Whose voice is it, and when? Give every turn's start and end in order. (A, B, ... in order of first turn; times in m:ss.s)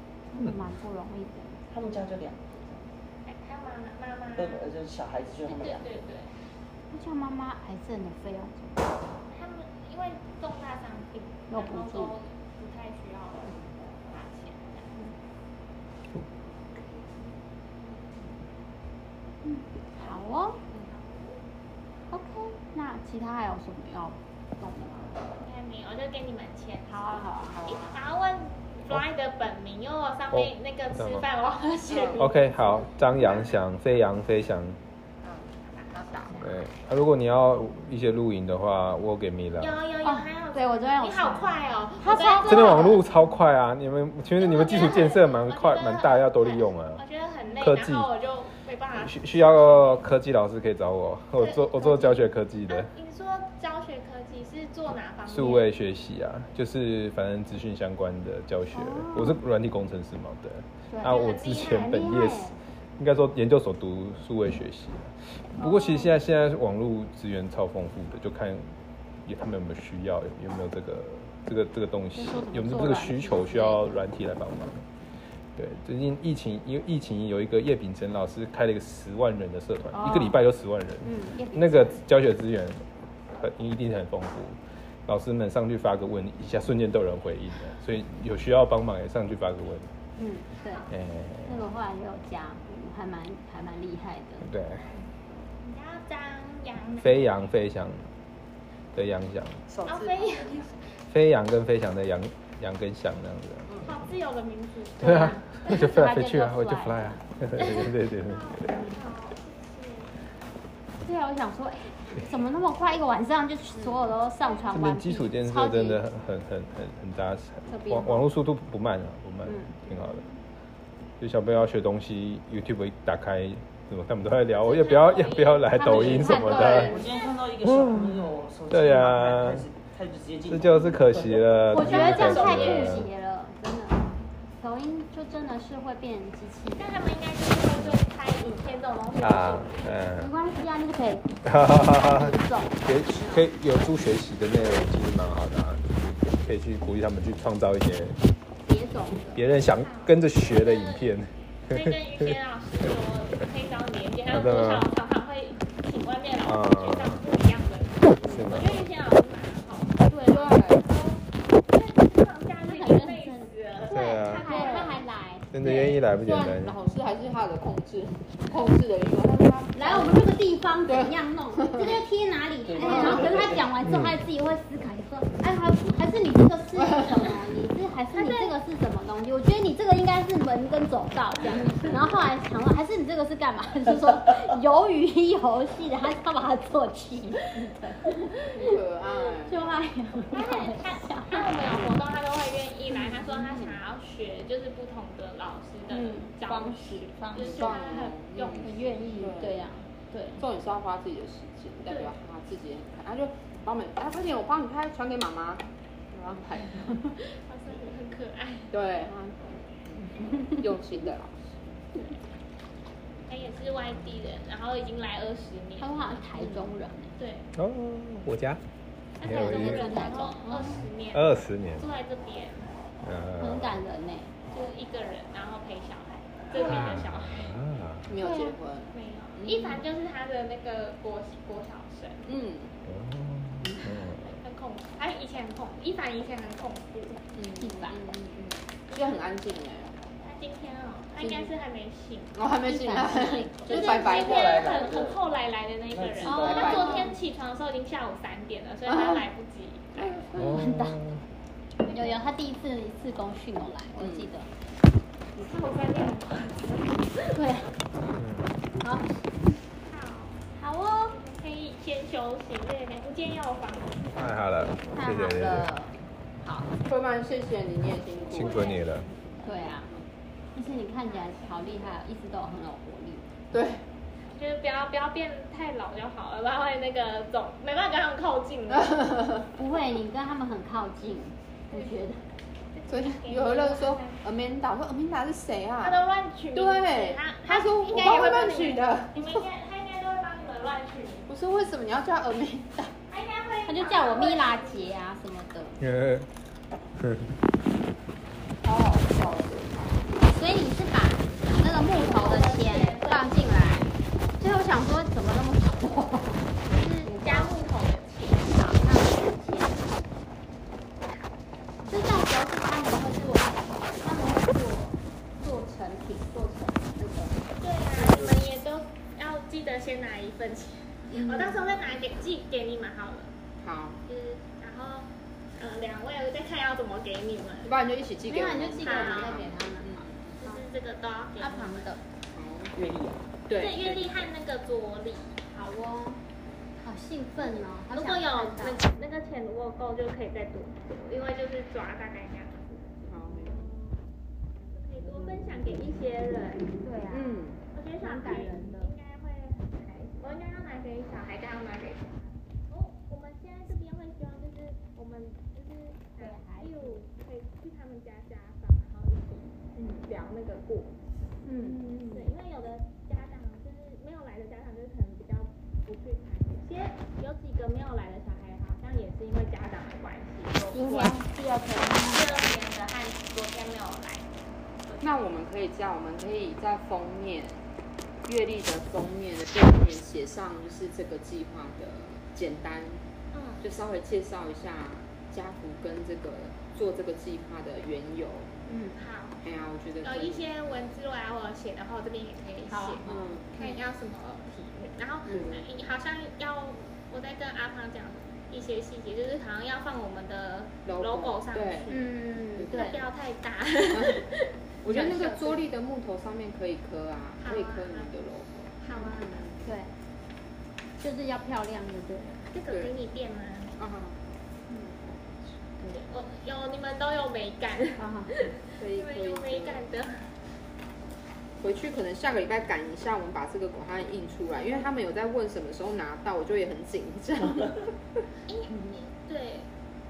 0:00.3-0:01.6 A
0:01.7-0:03.0 B
0:03.2-0:04.7 C
0:04.4-0:05.9 B
0:05.4-0:06.4 C
0:06.9-0:09.0 A
0:09.3-0:15.0 C
0:11.5-0:12.1 A
0:13.4-0:13.7 D
0:17.8-0:18.1 C
0:19.4-0:20.6 A
0:20.7-0:21.4 C
0:22.1-0:25.2 A
0:25.2-0:32.8 C
0:26.9-0:27.7 A
0:27.4-0:28.0 D
0:30.3-0:31.3 E
0:31.9-0:32.4 D
0:32.2-0:34.8 E
0:35.2-0:36.4 D
0:35.6-0:36.8 C
0:36.4-0:39.8 E
0:39.6-0:43.0 C
0:40.0-0:43.0 A
0:42.5-0:47.0 E
0:44.4-0:50.1 C
0:47.6-0:48.1 E
0:48.9-0:52.9 E
0:51.3-0:55.7 C
0:55.2-1:08.7 E
0:58.7-0:59.4 A
1:00.9-1:02.6 A
1:01.0-1:02.2 C
1:05.6-1:06.1 A
1:09.2-1:14.9 E
1:12.1-1:14.0 A
1:15.6-1:29.9 E
1:19.9-1:20.4 A
1:21.0-1:22.0 A
1:30.2-1:30.8 A
1:30.6-1:30.9 C
1:30.9-1:31.7 E
1:31.4-1:34.5 A
1:34.4-1:34.9 E
1:35.6-1:37.4 C
1:37.0-1:38.1 E
1:38.9-1:39.6 E
1:39.7-1:40.8 D
1:39.8-1:40.6 C
1:41.1-1:43.7 E
1:43.8-1:45.4 C
1:45.0-1:48.8 E
1:45.0-1:47.3 A
1:47.6-1:50.2 C
1:51.0-1:56.0 A
1:54.4-1:54.9 C
1:54.7-2:00.2 E
1:57.7-1:58.2 A
1:59.4-2:00.2 A
2:01.2-2:07.0 E
2:04.6-2:07.0 C
2:05.7-2:07.1 A
2:06.7-2:11.8 B
2:07.6-2:09.7 E
2:10.5-2:13.1 E
2:11.7-2:17.0 A
2:11.9-2:13.0 C
2:16.8-2:20.1 C
2:19.2-2:20.3 E
2:20.1-2:23.5 A
2:21.4-2:28.2 E
2:28.6-2:29.4 A
2:29.3-2:32.2 E
2:29.6-2:31.2 C
2:31.7-2:45.0 C
2:34.3-2:34.9 E
2:36.4-2:37.2 E
2:38.2-2:38.8 E
2:40.1-2:40.9 D
2:40.1-2:40.6 A
2:42.6-2:45.5 A
2:43.9-2:44.6 E
2:44.5-2:44.9 D
2:45.5-2:46.8 E
2:45.6-2:50.3 D
2:49.7-3:08.8 A
2:50.8-2:51.9 D
2:52.7-2:53.6 B
2:52.8-2:53.6 D
2:53.8-2:54.2 E
2:58.1-2:58.5 C
3:08.5-3:09.7 D
3:09.4-3:11.8 A
3:10.3-3:19.0 C
3:13.0-3:13.7 A
3:15.9-3:17.8 A
3:17.3-3:19.6 D
3:18.5-3:20.4 A
3:20.4-3:27.0 D
3:21.9-3:22.1 C
3:27.2-3:28.7 C
3:28.7-3:31.7 D
3:30.2-3:30.7 A
3:33.3-3:36.3 C
3:35.8-3:37.2 A
3:37.2-3:37.5 C
3:37.6-3:38.6 E
3:39.2-3:42.7 C
3:39.2-3:40.0 E
3:39.2-3:40.8 A
3:41.1-3:41.9 E
3:43.0-3:43.8 E
3:43.4-3:44.3 A
3:44.5-3:47.6 C
3:46.5-3:46.8 D
3:46.6-3:46.8 A
3:46.6-3:48.1 E
3:48.1-3:49.8 D
3:48.2-3:48.6 A
3:48.9-3:52.3 C
3:52.2-3:52.8 D
3:52.8-3:54.4 E
3:53.6-3:53.9 A
3:54.2-3:57.2 C
3:57.3-4:00.0 D
3:57.6-3:58.0 A
4:00.2-4:02.4 C
4:01.2-4:01.5 D
4:02.3-4:04.7 D
4:02.6-4:04.5 A
4:03.7-4:10.2 C
4:03.7-4:05.2 B
4:05.9-4:06.8 B
4:06.2-4:07.2 A
4:06.2-4:07.1 D
4:08.9-4:09.2 D
4:10.0-4:10.3 D
4:10.3-4:11.0 A
4:10.4-4:11.2 E
4:11.8-4:12.2 C
4:11.8-4:14.5 A
4:14.0-4:14.3 D
4:15.4-4:17.4 C
4:17.3-4:17.7 A
4:18.0-4:18.6 E
4:18.8-4:19.6 A
4:19.9-4:20.4 C
4:20.5-4:21.2 A
4:21.1-4:24.1 C
4:24.1-4:25.7 E
4:24.9-4:26.7 A
4:26.8-4:30.0 D
4:28.3-4:29.1 E
4:28.3-4:28.9 C
4:29.4-4:29.9 A
4:30.5-4:33.3 A
4:31.0-4:32.0 C
4:33.5-4:33.8 D
4:34.2-4:39.0 C
4:38.7-4:39.5 D
4:39.6-4:42.2 A
4:42.7-4:44.2 C
4:42.9-4:46.0 D
4:45.8-4:51.3 C
4:46.5-4:49.4 D
4:51.3-4:52.9 D
4:53.1-4:54.9 C
4:53.6-4:55.8 A
4:55.8-4:56.3 E
4:57.0-4:57.3 E
4:58.6-5:00.2 D
5:00.2-5:07.5 A
5:01.8-5:03.9 C
5:06.7-5:08.7 C
5:08.5-5:09.9 A
5:11.9-5:17.5 A
5:17.6-5:23.3 C
5:18.0-5:18.3 D
5:21.1-5:21.6 A
5:23.6-5:24.0 D
5:24.0-5:27.7 C
5:27.6-5:30.3 D
5:28.3-5:30.6 A
5:28.8-5:29.4 C
5:30.4-5:31.9 C
5:31.4-5:32.0 A
5:32.3-5:32.7 D
5:32.7-5:33.3 B
5:33.4-5:34.3 D
5:33.5-5:35.4 C
5:35.5-5:36.2 A
5:36.8-5:38.8 A
5:37.4-5:44.0 C
5:43.0-5:43.7 D
5:44.6-5:46.7 C
5:46.8-5:48.9 A
5:47.1-5:47.6 D
5:47.7-6:01.0 C
5:56.2-5:57.0 A
6:01.4-6:02.3 A
6:01.9-6:11.2 C
6:10.7-6:12.5 A
6:12.0-6:14.3 C
6:14.8-6:15.1 C
6:15.0-6:17.6 D
6:18.2-6:23.0 D
6:23.3-6:23.6 C
6:23.6-6:28.6 D
6:28.6-6:29.0 A
6:28.9-6:29.4 C
6:29.4-6:30.4 D
6:30.0-6:45.6 C
6:32.7-6:33.4 A
6:33.0-6:33.7 D
6:35.3-6:35.7 D
6:40.8-6:42.0 D
6:41.9-6:43.0 A
6:42.6-6:43.0 D
6:43.9-6:44.2 D
6:44.8-6:49.6 D
6:47.4-6:48.1 C
6:48.8-6:49.5 C
6:49.6-6:49.9 A
6:51.0-6:52.4 A
6:52.5-6:53.7 C
6:52.7-6:52.9 D
6:53.8-6:55.7 D
6:55.9-7:00.3 C
6:58.0-6:58.5 A
6:58.8-6:59.8 D
7:01.6-7:08.0 D
7:08.5-7:09.7 C